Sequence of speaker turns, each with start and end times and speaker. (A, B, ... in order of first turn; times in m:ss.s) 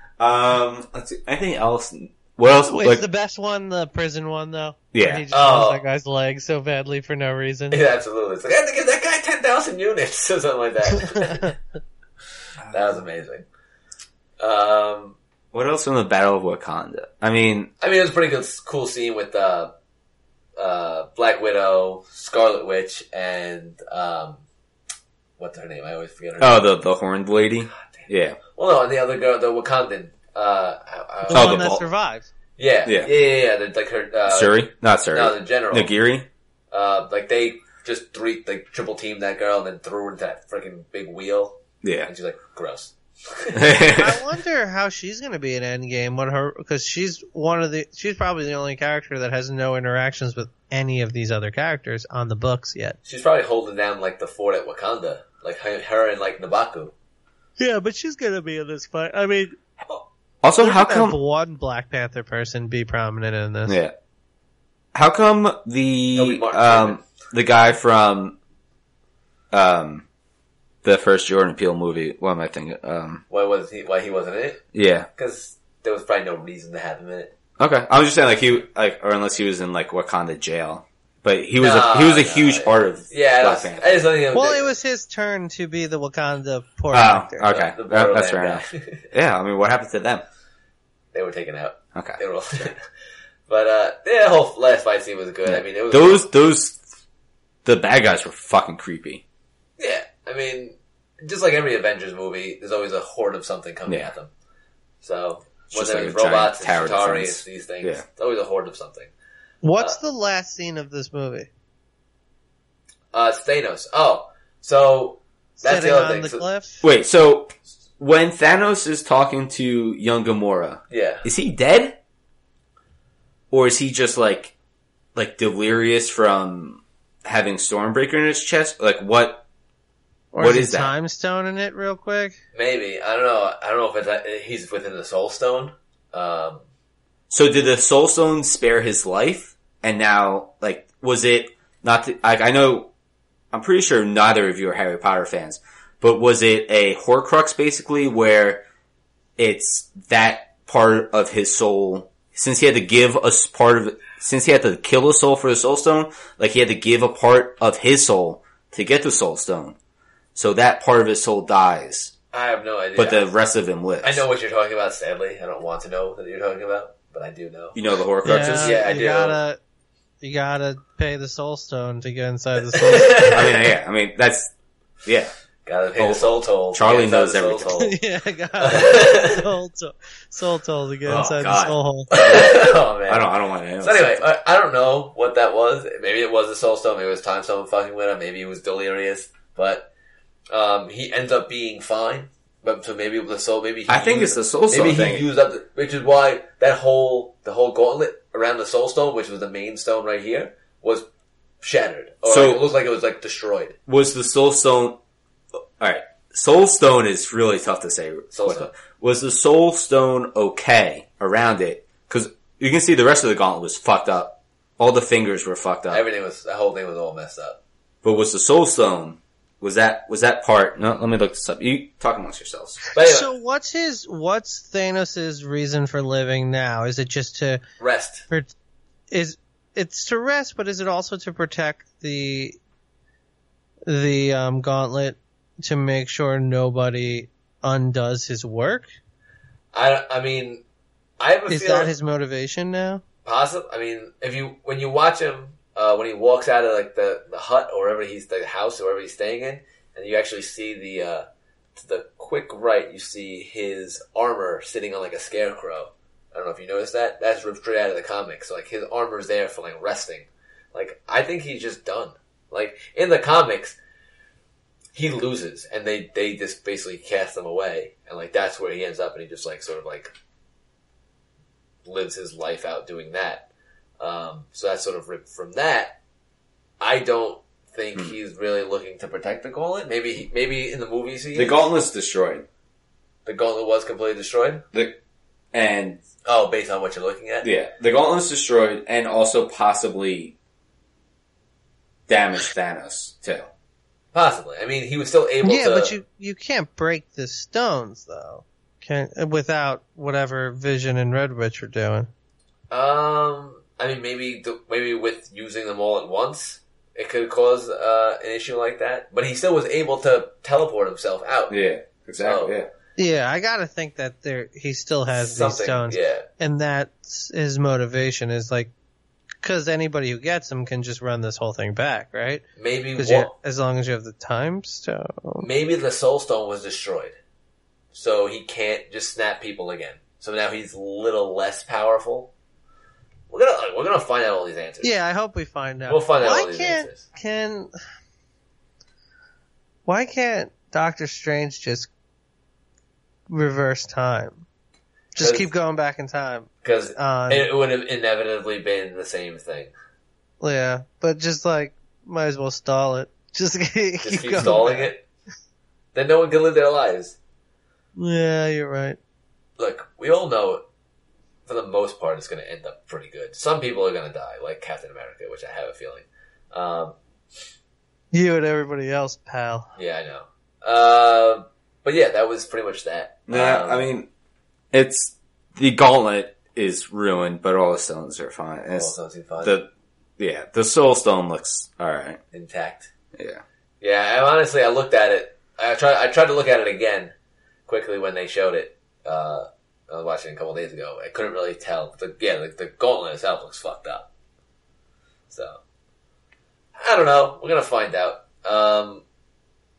0:00.2-0:03.0 A
0:02.6-0:07.8 B
0:04.9-0:05.2 A
0:05.3-0:05.8 C
0:07.7-0:11.5 C
0:12.7-0:13.4 C
0:14.4-0:15.2 C
0:15.5-0:17.7 A
0:17.8-0:19.7 C
0:20.6-0:24.4 C
0:25.4-0:26.7 C
0:26.4-0:28.4 A
0:28.0-0:31.7 C
0:31.3-0:32.3 B
0:31.3-0:31.8 A
0:32.6-0:35.9 C
0:32.8-0:33.1 A
0:34.3-0:36.3 A
0:36.7-0:43.8 C
0:41.8-0:42.1 A
0:43.5-0:44.2 A
0:43.9-0:53.0 B
0:53.0-0:56.9 C
0:57.6-0:59.5 B
1:00.4-1:01.2 A
1:00.6-1:03.8 B
1:03.7-1:03.9 A
1:04.9-1:08.4 A
1:06.1-1:07.0 C
1:09.5-1:10.0 A
1:10.8-1:13.2 A
1:13.3-1:14.6 C
1:14.7-1:15.1 A
1:15.2-1:17.3 C
1:17.6-1:24.0 A
1:21.6-1:24.7 C
1:24.3-1:27.5 B
1:26.9-1:30.2 A
1:27.5-1:29.0 C
1:31.1-1:32.8 C
1:33.5-1:36.3 C
1:35.4-1:36.8 A
1:37.6-1:39.2 A
1:39.8-1:44.3 C
1:45.0-1:49.1 C
1:45.7-1:48.0 A
1:49.6-1:51.5 B
1:53.1-1:56.4 C
1:55.6-1:56.8 B
1:56.8-2:02.0 A
2:00.9-2:01.2 C
2:03.5-2:04.5 A
2:05.1-2:09.4 A
2:10.3-2:12.4 B
2:10.4-2:10.9 A
2:12.5-2:16.6 C
2:17.3-2:22.9 A
2:23.5-2:28.6 A
2:29.4-2:39.8 A
2:40.3-2:42.1 A
2:42.3-2:43.3 C
2:43.0-2:44.2 A
2:44.0-2:47.8 C
2:47.7-2:48.8 A
2:48.2-2:49.6 B
2:48.6-2:49.4 C
2:50.2-2:53.4 B
2:52.7-2:53.5 C
2:53.2-2:54.5 A
2:55.0-2:55.3 A
2:55.6-2:58.0 C
2:56.0-2:57.8 A
2:57.8-3:02.1 B
2:58.6-2:59.5 C
3:01.0-3:04.2 A
3:02.1-3:09.9 C
3:10.5-3:21.0 C
3:13.9-3:15.2 A
3:21.6-3:23.8 C
3:22.2-3:22.6 A
3:23.9-3:25.0 A
3:25.8-3:36.0 A
3:28.3-3:28.7 C
3:35.9-3:37.6 C
3:38.0-3:42.8 A
3:42.9-3:43.3 C
3:42.9-3:47.6 B
3:47.8-3:48.2 C
3:49.1-3:52.6 B
3:53.9-3:58.9 B
3:59.7-4:00.6 C
4:01.2-4:01.9 C
4:01.5-4:03.0 B
4:03.2-4:23.8 C
4:24.9-4:30.1 C
4:31.8-4:33.5 C
4:34.0-4:36.0 C
4:36.8-4:41.7 C
4:41.4-4:42.4 A
4:43.2-4:44.6 C
4:44.7-4:45.0 A
4:45.5-4:46.0 A
4:46.2-4:47.5 C
4:47.4-4:50.3 A
4:52.1-4:53.5 A
4:54.1-4:55.9 C
4:55.4-5:02.1 B
5:02.7-5:11.6 C
5:11.5-5:12.7 A
5:12.2-5:12.5 C
5:13.0-5:18.7 B
5:15.1-5:16.2 C
5:19.4-5:25.5 B
5:22.6-5:23.3 C
5:25.4-5:27.2 C
5:27.9-5:32.3 C
5:33.3-5:34.9 C
5:34.8-5:37.7 B
5:35.9-5:37.0 C
5:39.8-5:41.9 B
5:43.3-5:44.4 B
5:45.1-5:47.5 B
5:45.2-5:45.5 C
5:46.6-5:49.7 C
5:50.4-5:54.9 B
5:54.0-5:55.0 C
5:55.9-5:57.2 C
5:58.0-5:59.0 B
5:59.6-6:00.6 C
6:01.5-6:07.0 C
6:08.1-6:09.7 B
6:09.8-6:13.9 C
6:13.3-6:14.1 A
6:14.7-6:22.2 A
6:18.7-6:19.6 C
6:22.3-6:22.9 C
6:23.1-6:23.4 A
6:23.8-6:27.1 C
6:27.7-6:34.1 C
6:35.3-6:35.6 C
6:36.8-6:39.0 C